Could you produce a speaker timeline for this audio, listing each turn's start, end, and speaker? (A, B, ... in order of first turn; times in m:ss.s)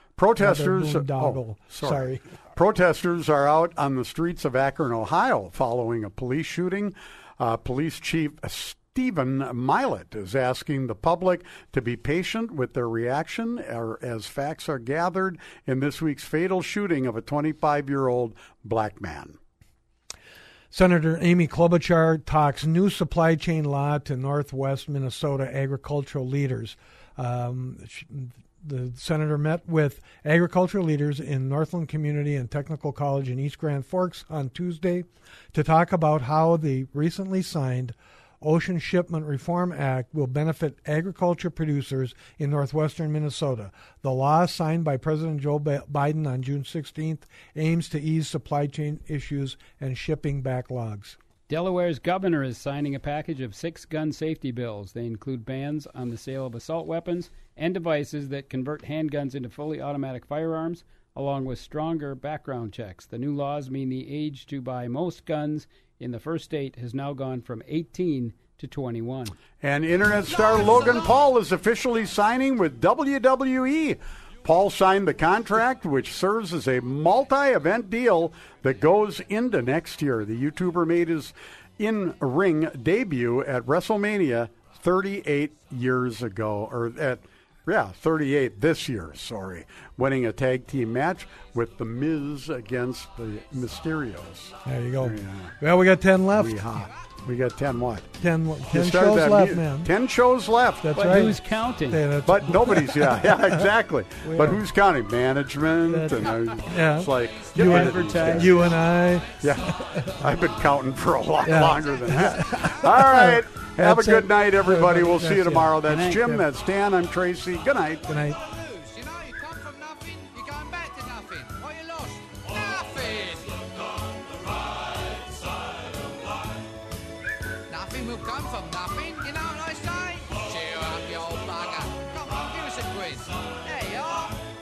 0:00.2-0:19.4 A
0:00.4-0:02.2 B
0:20.7-0:51.2 B
0:51.5-1:09.4 C
1:09.6-1:35.6 A
1:34.6-1:36.7 B
1:36.3-1:38.1 A
1:38.2-1:39.9 B
1:38.7-1:40.9 A
1:40.8-1:43.7 B
1:40.9-1:42.0 C
1:42.2-1:48.7 A
1:44.2-1:44.6 B
1:45.9-1:50.4 B
1:47.5-1:48.9 C
1:49.4-1:58.1 A
1:51.4-1:55.8 B
1:55.7-1:56.4 C
1:58.0-1:58.4 B
1:59.0-2:02.0 D
2:03.0-2:03.2 D
2:07.7-2:14.2 D